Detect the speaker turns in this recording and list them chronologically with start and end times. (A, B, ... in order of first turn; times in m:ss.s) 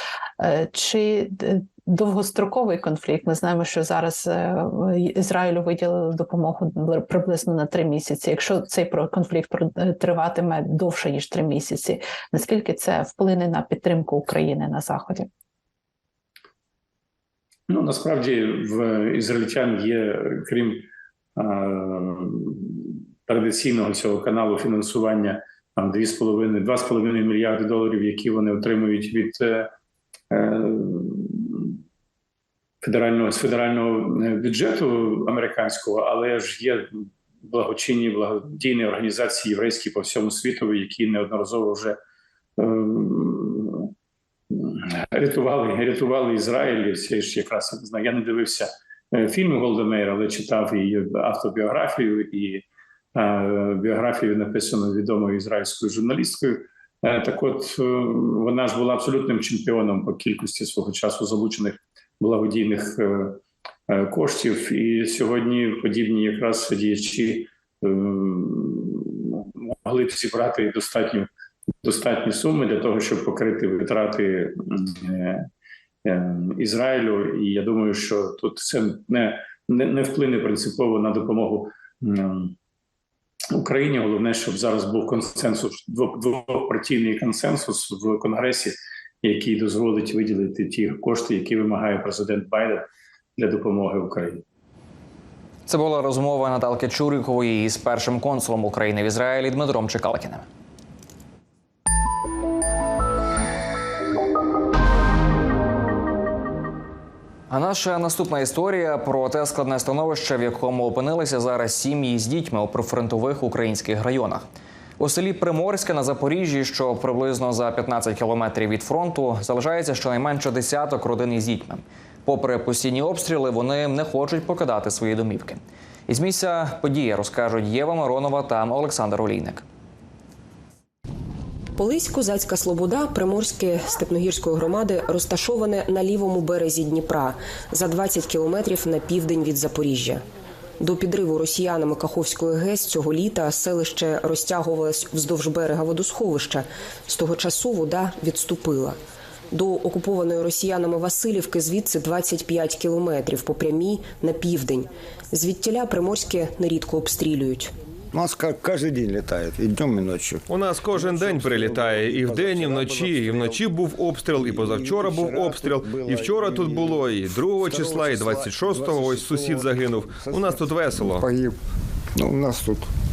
0:00.4-0:15.3 A
0:17.7-0:29.7 B
0:30.3-0:31.8 B
0:32.8-0:42.0 B
0:42.6-0:43.9 B
0:44.5-0:52.6 B
0:53.1-1:11.3 B
1:11.8-1:15.5 B
1:16.0-1:22.5 B
1:23.5-1:32.8 B
1:33.4-1:34.4 B
1:35.7-1:40.4 C
1:47.5-1:54.4 C
1:55.0-2:09.6 C
2:11.8-2:20.2 D
2:20.8-2:29.0 D
2:29.5-2:37.7 D
2:38.1-2:43.7 E
2:40.5-2:51.3 F
2:44.3-2:51.6 E
2:52.1-2:52.9 E